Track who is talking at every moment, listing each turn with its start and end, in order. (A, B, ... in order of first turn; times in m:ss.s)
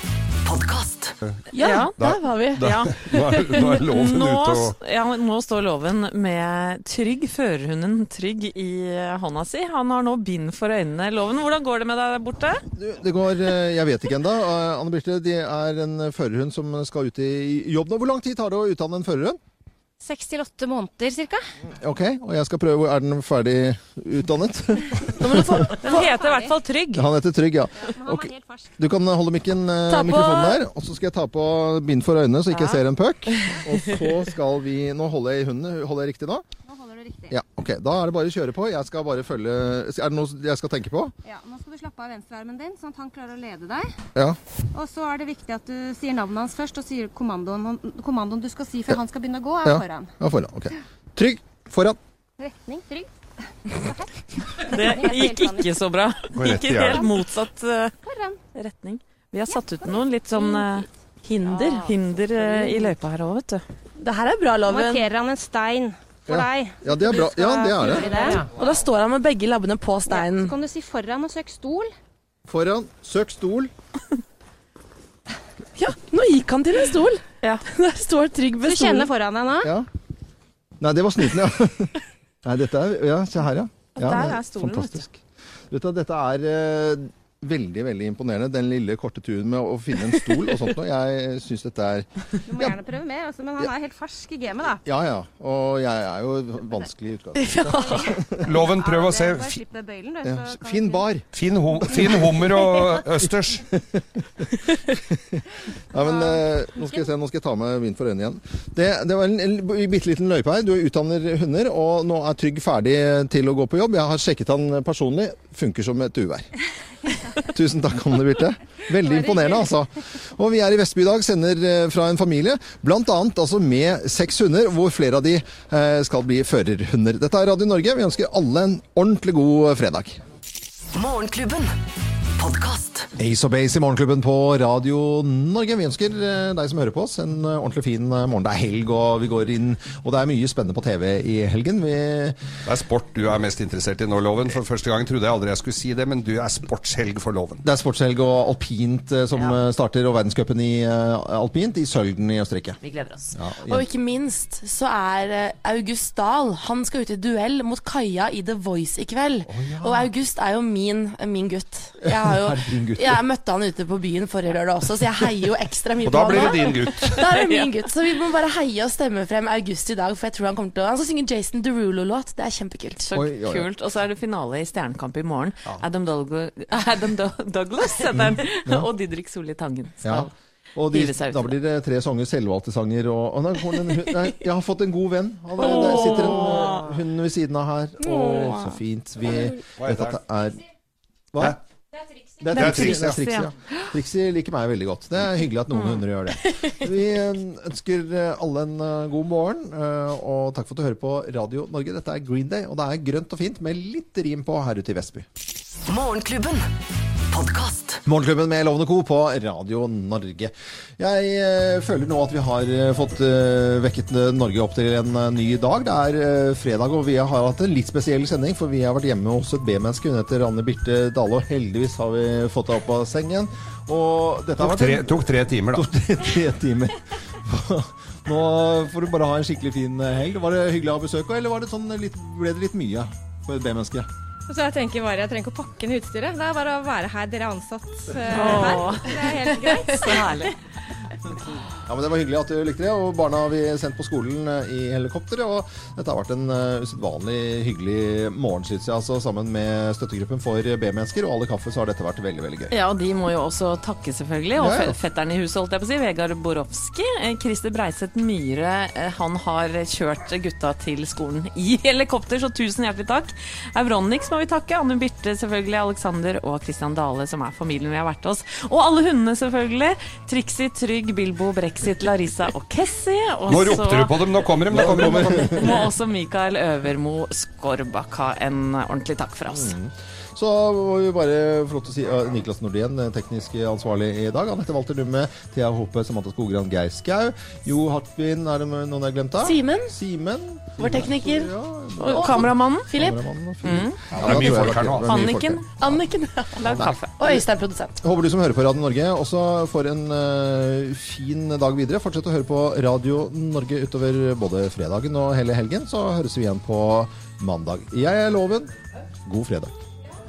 0:01.5-0:12.6 A
0:01.6-0:01.9 B
0:02.0-0:04.8 C
0:12.8-0:19.4 D
0:20.0-0:21.4 E
0:21.6-0:25.7 D
0:25.2-0:27.0 A
0:25.5-0:26.6 E
0:26.9-0:36.4 D
0:27.8-0:28.8 E
0:30.0-0:30.6 B
0:32.5-0:32.8 A
0:36.7-0:37.4 E
0:37.3-0:41.1 D
0:41.2-0:43.9 E
0:44.7-0:50.1 E
0:49.6-0:52.0 D
0:52.4-0:53.1 E
0:53.7-0:55.8 E
0:54.6-0:57.9 A
0:56.3-0:57.1 C
0:58.0-0:58.4 E
0:58.5-1:00.9 A
0:59.5-1:00.8 E
1:01.2-1:02.9 B
1:01.5-1:03.6 A
1:04.0-1:05.1 B
1:04.7-1:08.5 E
1:06.3-1:08.3 D
1:08.1-1:10.6 B
1:10.1-1:11.9 E
1:12.5-1:13.7 D
1:15.8-1:19.1 B
1:18.6-1:19.7 E
1:20.8-1:21.9 D
1:22.4-1:25.2 D
1:24.0-1:25.0 A
1:25.7-1:32.7 D
1:32.4-1:34.8 E
1:34.8-1:38.5 D
1:37.4-1:38.1 B
1:37.7-1:41.1 E
1:38.4-1:39.6 C
1:40.2-1:41.3 D
1:41.3-1:43.7 C
1:41.9-1:42.8 E
1:43.7-1:44.6 D
1:45.1-1:56.5 D
1:46.0-1:47.0 E
1:57.4-2:10.2 D
1:59.0-1:59.7 E
2:13.2-2:22.4 D
2:22.6-2:27.6 C
2:27.6-2:32.8 D
2:32.8-2:53.1 B
2:33.3-2:33.8 D
2:39.5-2:40.1 D
2:42.0-2:43.2 D
2:46.0-2:47.2 C
2:47.1-2:47.7 A
2:53.0-3:00.3 A
2:53.1-2:53.7 D
2:58.1-2:58.9 D
3:00.0-3:10.6 D
3:00.9-3:01.6 A
3:05.6-3:06.9 A
3:08.1-3:08.7 A
3:09.8-3:10.2 C
3:12.4-3:25.3 D
3:12.5-3:13.9 A
3:12.5-3:13.2 C
3:15.7-3:16.0 A
3:28.1-3:54.1 D
3:44.6-3:45.9 C
3:54.5-4:00.5 E
3:58.3-4:00.5 A
3:58.4-3:58.8 B
4:01.9-4:12.7 D
4:12.7-4:34.2 A
4:14.6-4:15.0 D
4:33.5-4:35.7 C
4:34.7-4:35.8 D
4:34.7-4:39.7 A
4:39.5-4:56.0 D
4:49.4-4:49.9 B
4:50.8-4:51.5 B
4:52.0-4:52.9 A
4:52.0-4:53.2 B
4:53.6-4:57.1 A
4:54.1-4:55.4 C
4:56.0-4:58.0 B
4:56.7-4:57.0 D
4:58.0-5:08.7 D
5:09.3-5:09.8 D